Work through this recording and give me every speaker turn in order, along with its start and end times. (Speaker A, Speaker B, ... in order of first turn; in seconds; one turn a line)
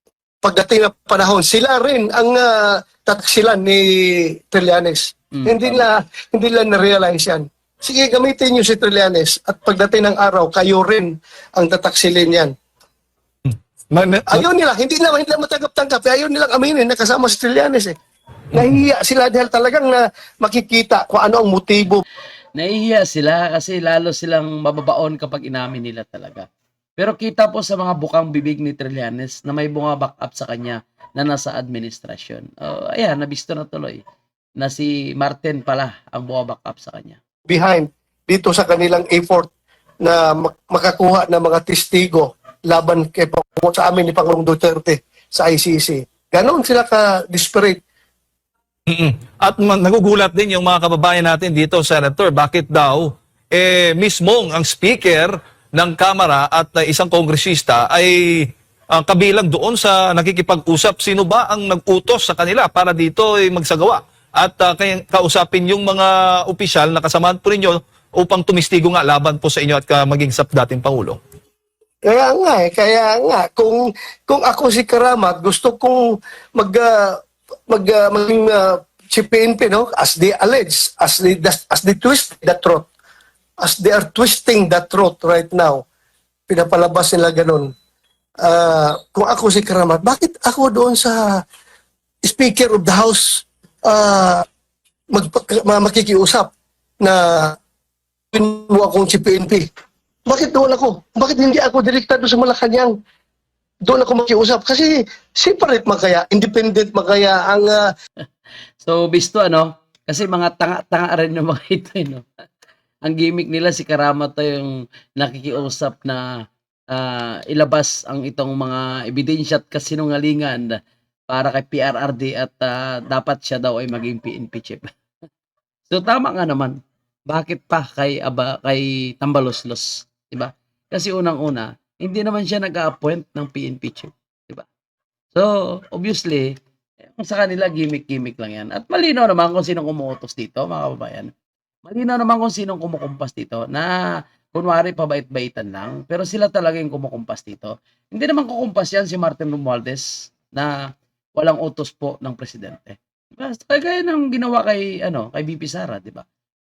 Speaker A: 0.4-12.5
Speaker B: 5.3-5.8
Speaker C: 13.4-14.4
Speaker A: 14.3-17.9
Speaker A: 18.5-22.0
Speaker C: 18.6-18.8
Speaker B: 22.5-26.4
Speaker B: 27.0-34.0
Speaker B: 34.6-37.2
Speaker A: 37.5-39.5
Speaker A: 40.0-47.8
Speaker C: 48.9-71.2
Speaker A: 72.0-77.2
Speaker A: 77.7-82.9
Speaker A: 83.6-85.8
Speaker A: 86.5-87.7
Speaker A: 88.4-91.4
Speaker A: 92.2-94.4
Speaker A: 95.1-96.5
Speaker A: 97.0-97.5
Speaker A: 98.3-99.7
Speaker A: 100.3-102.9
Speaker A: 103.9-107.8
Speaker B: 108.8-112.2
Speaker B: 113.0-116.2
Speaker B: 116.9-120.7
Speaker B: 121.3-124.9
Speaker B: 125.9-126.7
Speaker B: 127.3-134.7
Speaker B: 135.3-136.5
Speaker B: 137.1-141.3
Speaker B: 141.8-144.0
Speaker B: 144.5-150.7
Speaker B: 151.4-156.2